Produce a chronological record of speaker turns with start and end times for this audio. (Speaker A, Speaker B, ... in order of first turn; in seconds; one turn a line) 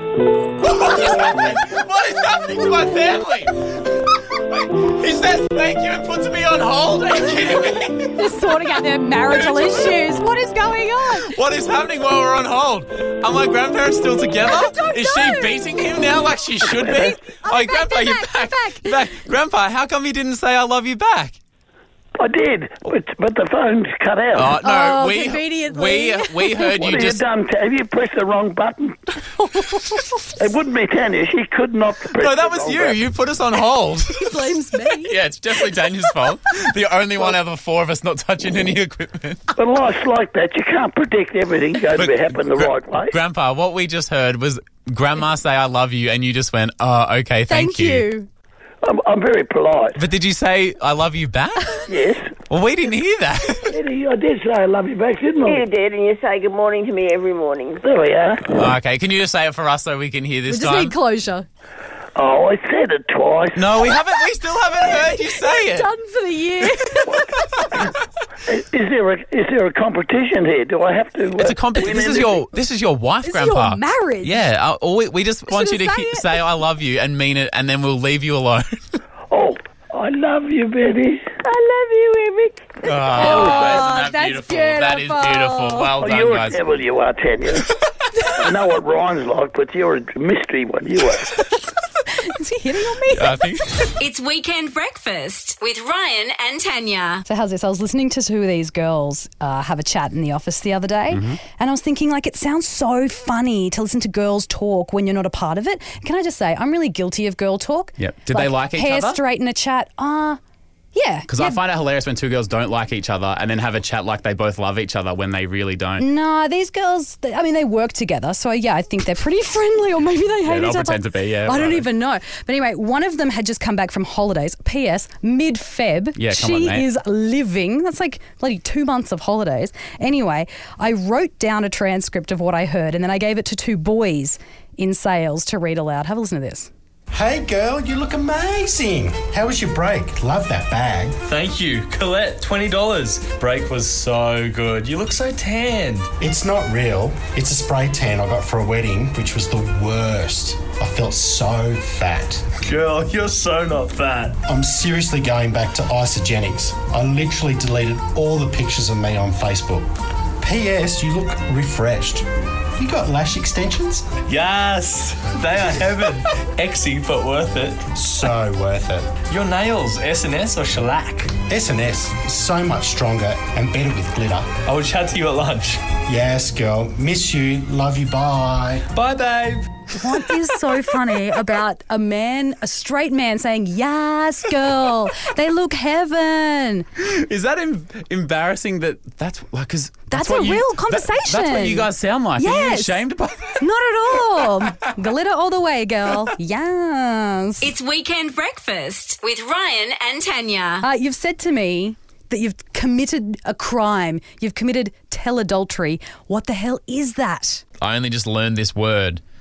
Speaker A: 0.6-8.2
Speaker B: 8.2-11.3
Speaker A: 9.3-10.0
Speaker A: 11.2-21.4
Speaker B: 14.4-15.8
Speaker B: 16.9-19.1
Speaker C: 22.2-24.6
Speaker A: 24.3-27.2
Speaker B: 24.6-26.9
Speaker C: 26.8-29.0
Speaker B: 29.4-30.2
Speaker C: 30.4-33.0
Speaker A: 32.1-39.5
Speaker B: 34.1-35.2
Speaker B: 35.7-36.1
Speaker C: 39.5-43.1
Speaker A: 41.9-48.0
Speaker B: 47.5-48.3
Speaker C: 48.8-50.0
Speaker A: 50.0-51.8
Speaker C: 51.9-52.3
Speaker A: 52.5-53.8
Speaker C: 53.7-55.6
Speaker D: 55.4-57.8
Speaker C: 57.8-58.5
Speaker A: 58.5-61.0
Speaker B: 60.5-61.5
Speaker C: 62.1-63.7
Speaker A: 63.5-65.9
Speaker B: 64.9-67.6
Speaker C: 68.5-72.5
Speaker A: 71.3-79.0
Speaker B: 73.2-74.4
Speaker B: 75.5-76.4
Speaker C: 79.3-81.3
Speaker D: 81.4-83.0
Speaker A: 82.8-86.6
Speaker B: 83.1-85.9
Speaker C: 83.2-83.8
Speaker C: 86.0-87.7
Speaker C: 88.3-91.4
Speaker B: 92.1-93.5
Speaker A: 93.1-93.9
Speaker E: 94.0-97.2
Speaker B: 97.3-110.4
Speaker A: 101.1-101.4
Speaker A: 108.0-109.2
Speaker B: 110.9-111.6
Speaker A: 111.3-116.0
Speaker B: 116.0-136.7
Speaker A: 120.4-121.9
Speaker A: 126.2-126.9
Speaker F: 137.1-141.2
Speaker G: 141.2-146.1
Speaker F: 146.2-152.5
Speaker G: 152.6-154.4
Speaker F: 154.4-159.9
Speaker F: 160.4-162.3
Speaker F: 162.8-164.1
Speaker G: 164.3-167.8
Speaker F: 167.9-169.1
Speaker G: 169.3-171.4
Speaker F: 171.5-174.5
Speaker G: 174.7-175.8
Speaker F: 176.1-178.9
Speaker G: 178.9-179.8
Speaker B: 179.9-186.9
Speaker A: 187.0-193.6
Speaker B: 190.1-193.0
Speaker B: 193.6-197.7
Speaker E: 197.6-200.8
Speaker B: 200.8-207.6
Speaker A: 207.8-209.2